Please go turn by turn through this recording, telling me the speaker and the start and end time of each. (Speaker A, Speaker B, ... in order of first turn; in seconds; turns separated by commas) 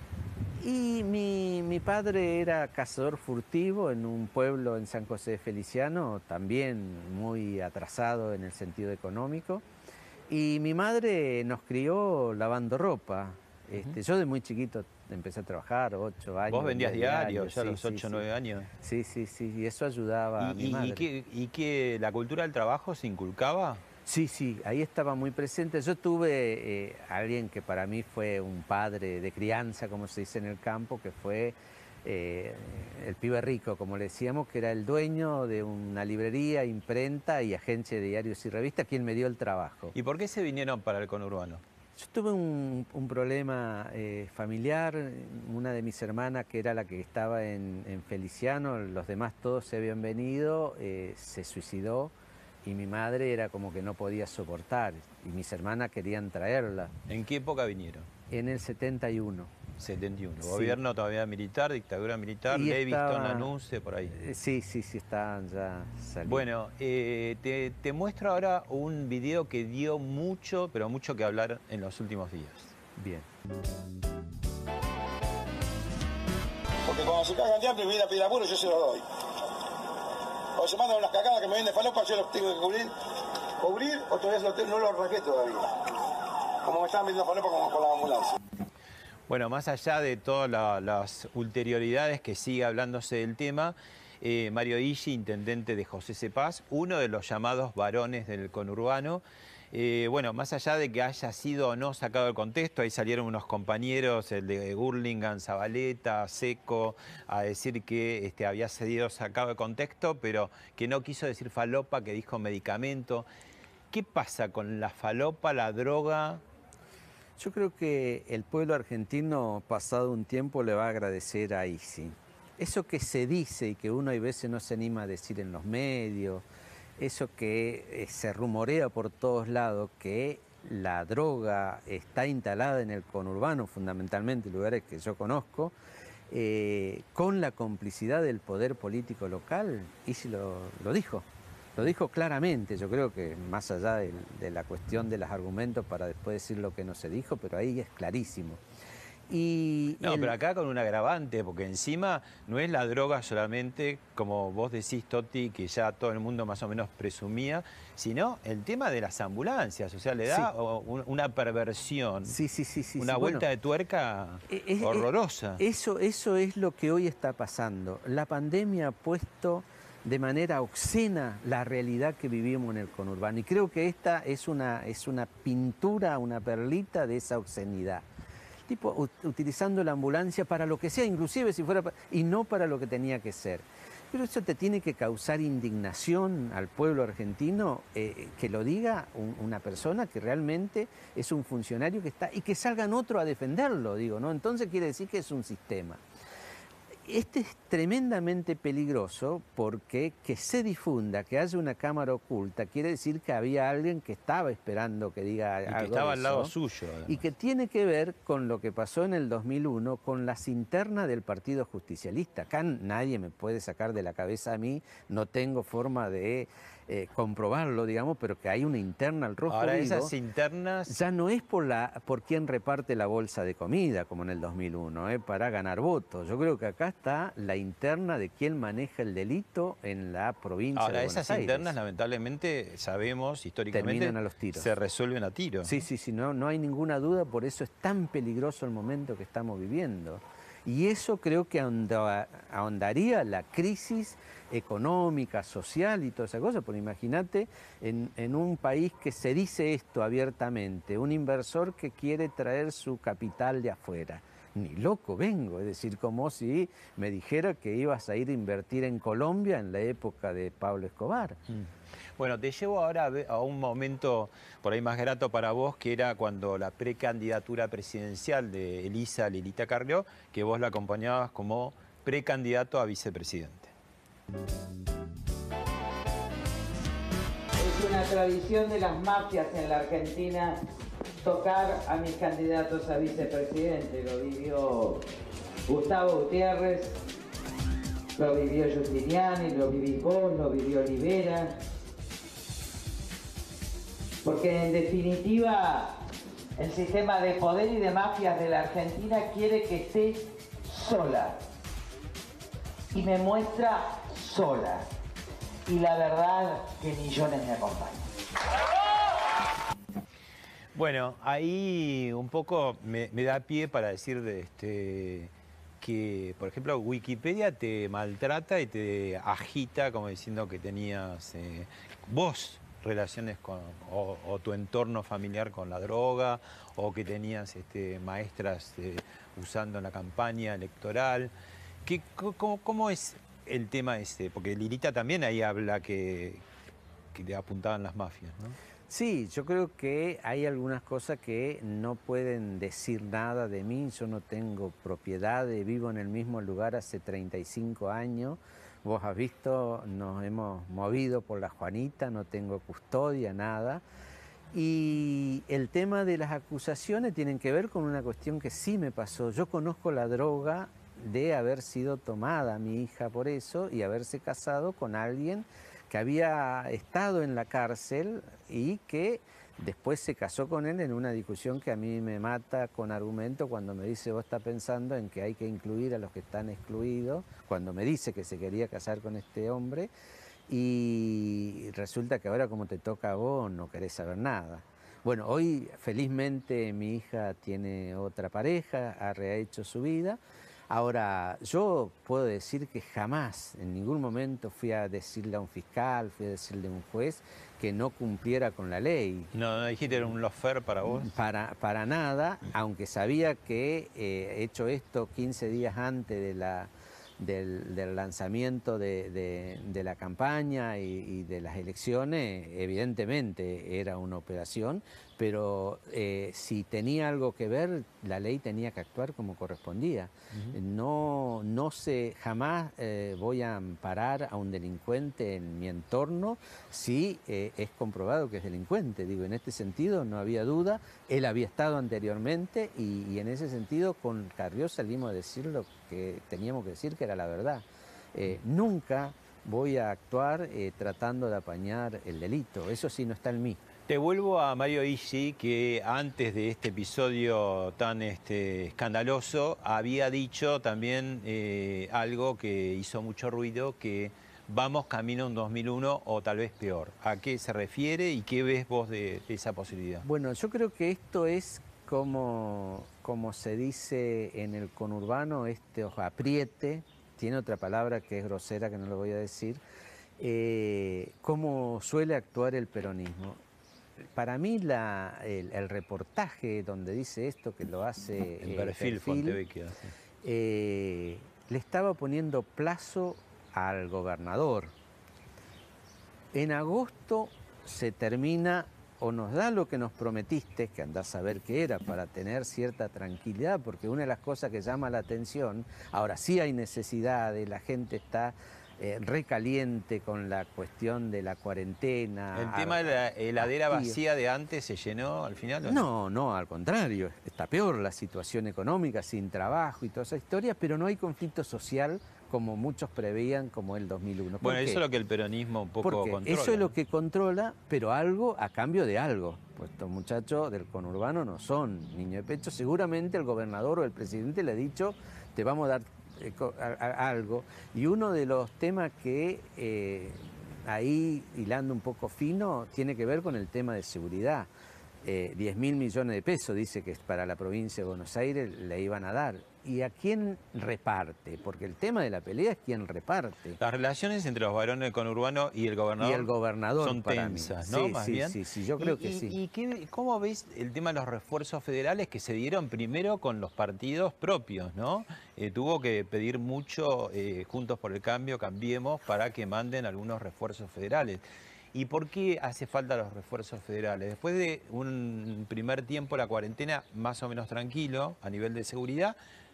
Speaker A: 0.6-9.6, Speaker A: 10.3-18.2, Speaker B: 13.7-14.0, Speaker B: 16.5-18.7, Speaker A: 18.8-21.1, Speaker B: 20.4-23.8, Speaker A: 24.1-39.9, Speaker B: 39.9-41.6, Speaker A: 42.0-52.1, Speaker A: 52.6-56.9, Speaker B: 57.1-58.1, Speaker A: 58.3-59.5, Speaker B: 59.8-64.2, Speaker A: 60.4-60.8, Speaker A: 62.5-63.5, Speaker A: 64.1-66.5, Speaker B: 66.3-72.7, Speaker A: 73.0-73.2, Speaker C: 76.8-79.0, Speaker C: 80.6-82.9, Speaker C: 83.6-85.7, Speaker C: 86.6-88.3, Speaker B: 89.3-113.2, Speaker B: 113.9-116.4, Speaker A: 117.4-126.4, Speaker A: 127.0-135.7, Speaker A: 136.3-148.6, Speaker A: 149.3-150.3, Speaker B: 150.0-162.4, Speaker A: 162.2-163.4, Speaker B: 163.0-165.6, Speaker A: 164.5-178.0, Speaker A: 178.7-196.0, Speaker A: 197.0-206.5, Speaker B: 205.7-207.3, Speaker A: 207.1-220.1, Speaker B: 219.5-220.9, Speaker A: 220.9-231.7, Speaker B: 230.7-235.8, Speaker A: 233.7-234.7, Speaker A: 235.6-261.4, Speaker B: 261.5-273.7, Speaker D: 277.6-280.6, Speaker D: 281.2-285.0, Speaker D: 285.7-286.9, Speaker D: 288.1-291.5, Speaker D: 294.2-295.9, Speaker D: 296.6-301.4, Speaker D: 302.9-304.9, Speaker D: 305.6-308.0, Speaker B: 310.7-331.3, Speaker B: 331.8-336.4, Speaker B: 337.1-338.6, Speaker A: 338.9-353.8, Speaker A: 354.5-379.9, Speaker A: 380.5-399.3, Speaker B: 399.3-401.1, Speaker A: 401.0-443.6, Speaker B: 420.3-420.6, Speaker B: 443.9-460.0, Speaker A: 460.0-469.6, Speaker A: 470.2-473.4, Speaker A: 474.1-479.4, Speaker B: 478.4-479.9, Speaker A: 480.2-484.7, Speaker A: 486.3-502.8, Speaker B: 502.3-505.9, Speaker A: 503.4-504.0, Speaker A: 505.6-514.8, Speaker B: 514.4-516.7, Speaker A: 515.8-534.5, Speaker A: 535.0-543.6, Speaker B: 543.6-569.2, Speaker A: 546.0-549.3